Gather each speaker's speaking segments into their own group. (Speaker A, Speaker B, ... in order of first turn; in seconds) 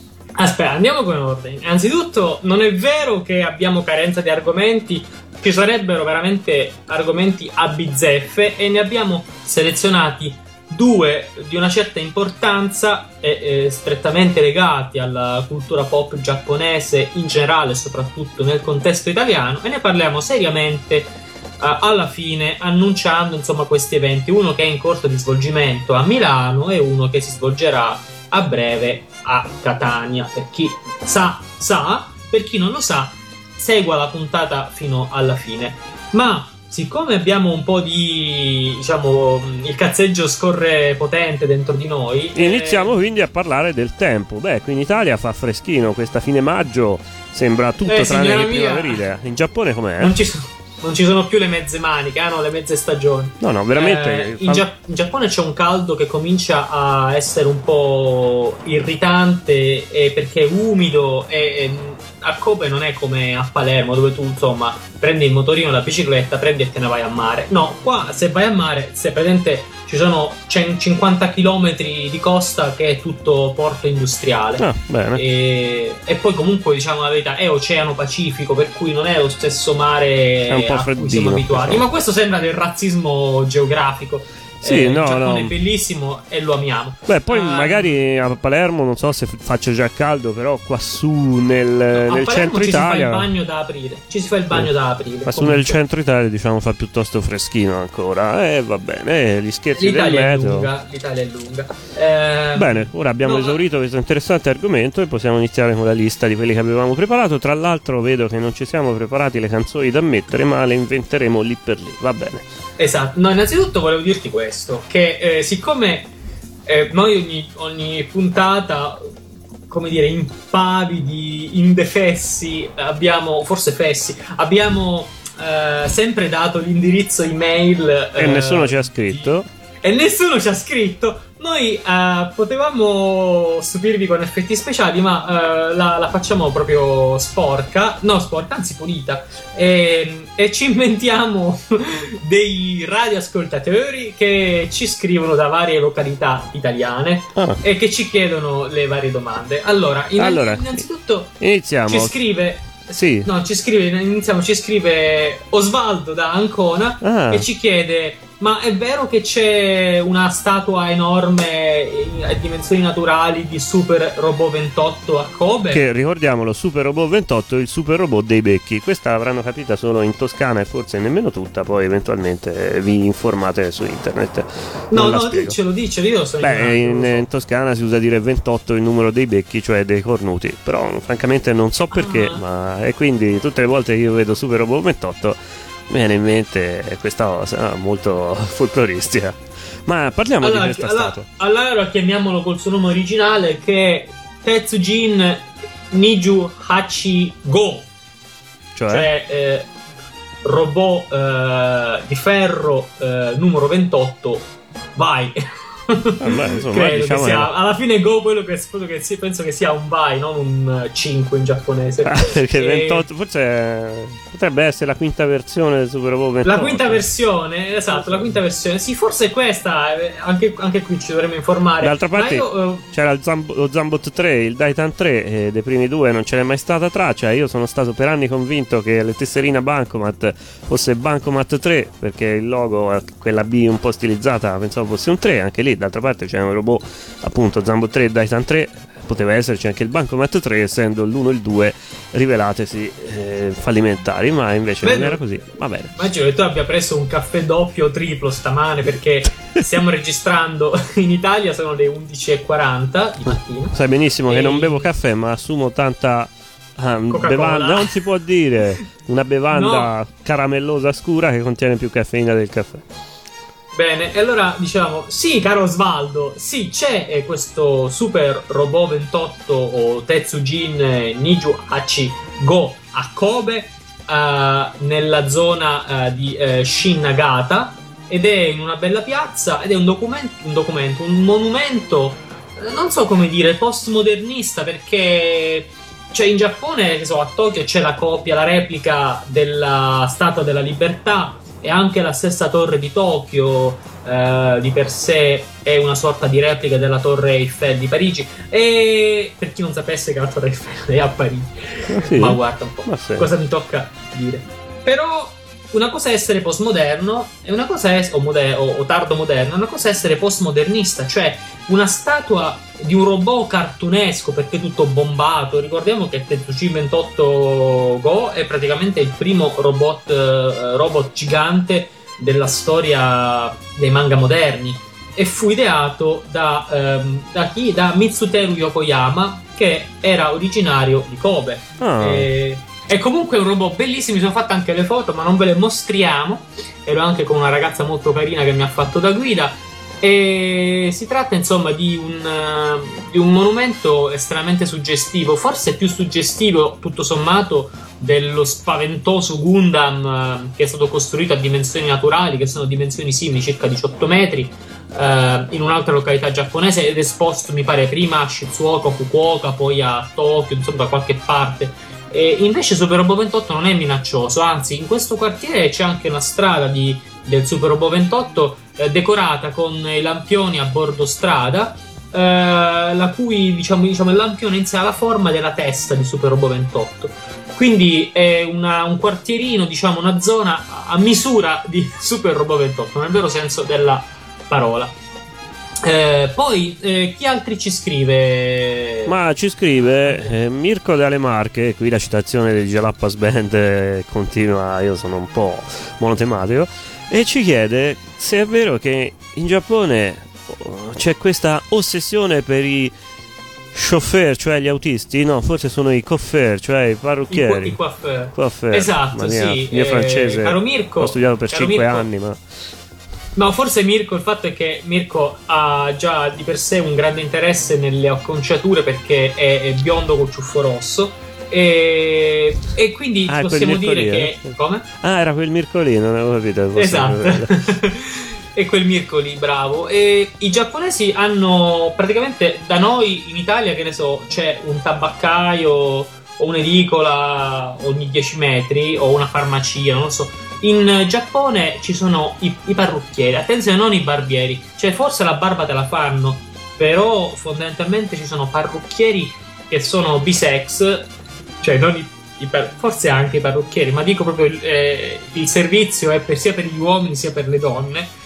Speaker A: 0.4-42.9, 47.9-49.0, 50.0-88.0, 91.9-95.8, 99.8-103.6, 112.8-116.1, 116.7-119.1, 119.7-165.8, 174.9-177.3, 181.9-182.4, 190.4-197.9, 198.9-199.7, 200.4-205.4, 205.9-213.1, 216.4-222.9, 244.8-245.2, 245.9-253.7, 254.3-254.9, 257.1-258.0, 259.5-259.9, 263.7-384.9, 385.8-389.1, 407.3-412.1, 413.4-424.9, 426.8-451.1, 451.6-458.1
Speaker B: 42.4-50.2, 53.4-54.7, 74.6-75.2, 80.5-81.8, 84.6-85.5, 87.1-93.3, 95.2-100.7, 102.5-112.5, 128.2-129.5, 147.3-147.6, 150.2-150.8, 151.4-152.2, 152.9-153.3, 157.0-157.5, 165.7-175.6, 176.4-191.3, 198.8-199.1, 206.2-207.5, 212.0-217.1, 217.9-218.3, 221.8-246.0, 253.7-262.9, 301.9-303.3, 331.8-332.3, 389.1-402.9, 403.7-407.8, 408.4-412.4, 423.3-427.6